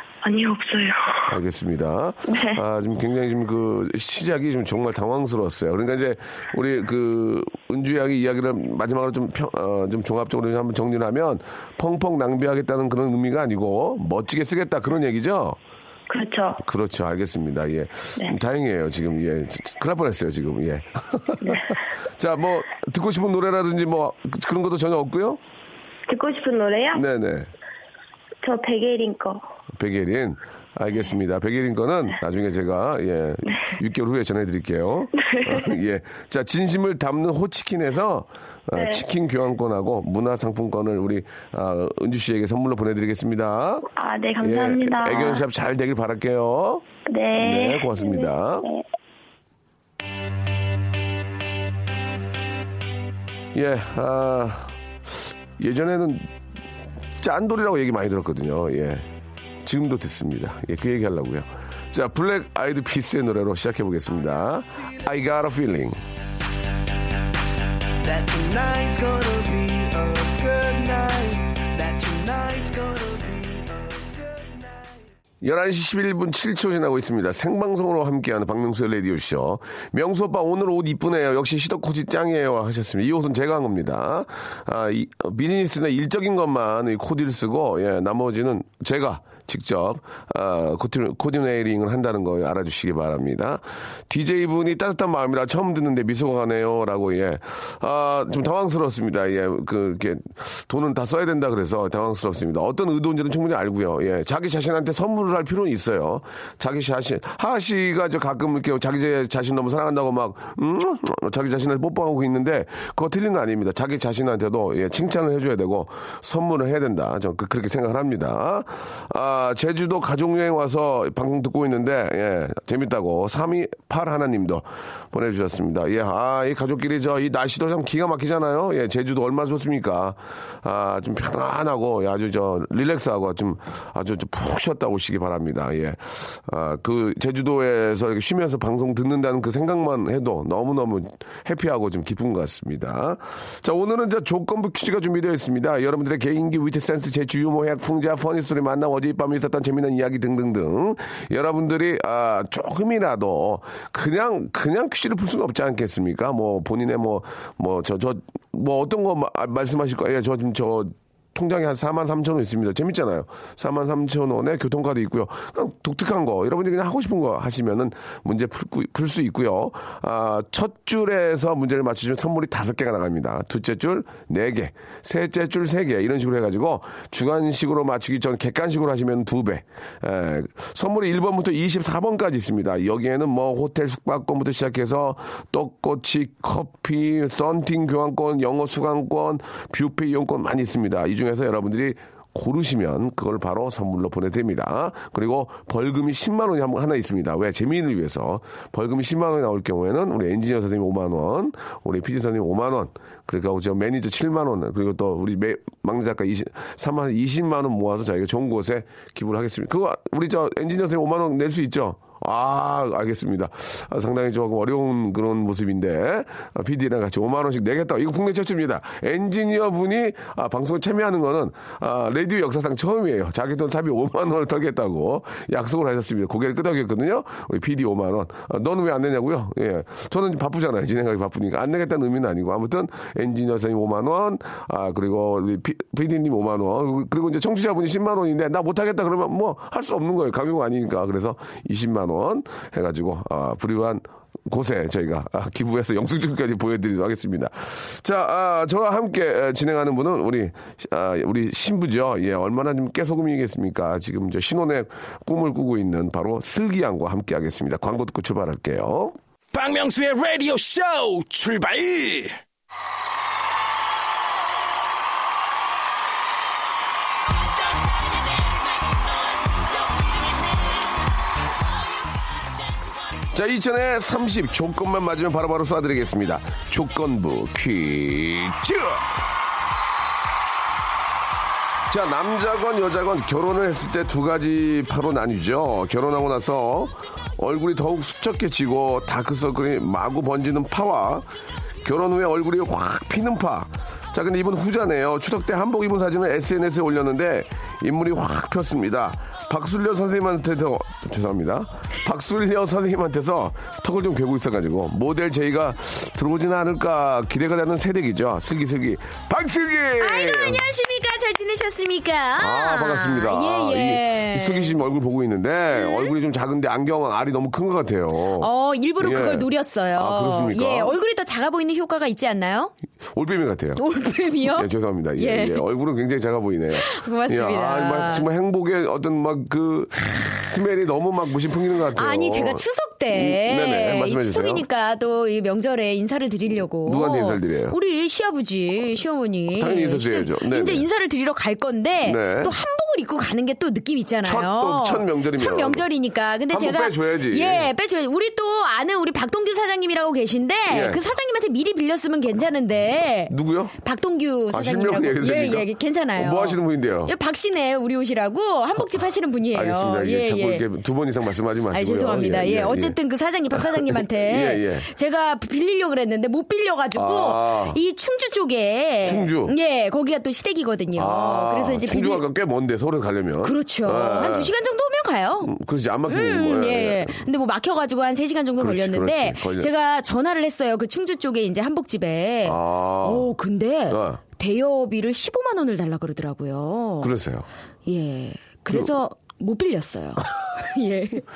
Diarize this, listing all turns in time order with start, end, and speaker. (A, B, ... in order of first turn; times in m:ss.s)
0:00.2-0:01.2 A
0:01.3-0:15.6 B
0:02.3-0:02.6 A
0:16.1-0:16.6 A
0:16.6-0:25.4 B
0:21.4-0:21.8 A
0:26.1-0:27.0 A
0:26.9-0:27.5 B
0:28.4-0:29.4 A
0:29.8-0:43.9 B
0:35.3-0:35.7 A
0:38.7-0:39.0 A
0:44.0-0:45.4 A
0:44.4-0:46.8 B
0:47.1-0:48.8 A
0:47.4-0:48.7 B
0:53.5-0:54.7 B
0:55.6-0:56.3 B
0:57.2-0:59.0 B
0:59.6-1:06.0 B
1:08.0-1:15.0 C
1:15.4-4:19.1 B
4:19.5-4:22.4 D
4:33.3-4:39.1 B
4:41.9-4:51.3 B
4:51.8-5:10.6 B
5:10.0-5:14.8 E
5:12.4-5:21.0 B
5:15.7-5:16.1 E
5:18.4-5:22.7 E
5:23.1-5:23.8 B
5:23.8-5:25.6 E
5:24.5-5:34.6 B
5:26.7-5:28.3 E
5:32.0-6:00.6 E
5:36.8-5:37.8 B
5:39.5-5:40.9 B
5:42.0-5:42.5 B
5:44.2-5:45.8 B
5:46.5-5:47.7 B
5:50.7-5:51.0 B
5:53.3-5:53.7 B
5:54.5-5:57.1 B
5:59.5-6:03.0 B
6:01.7-6:12.2 E
6:03.5-6:04.9 B
6:06.9-6:07.8 B
6:09.0-6:09.6 B
6:11.0-6:14.5 B
6:13.4-6:15.5 E
6:15.4-6:17.2 B
6:16.1-6:27.1 E
6:18.6-6:19.7 B
6:22.4-6:23.3 B
6:23.9-6:24.2 B
6:27.0-6:27.5 B
6:27.9-6:31.2 E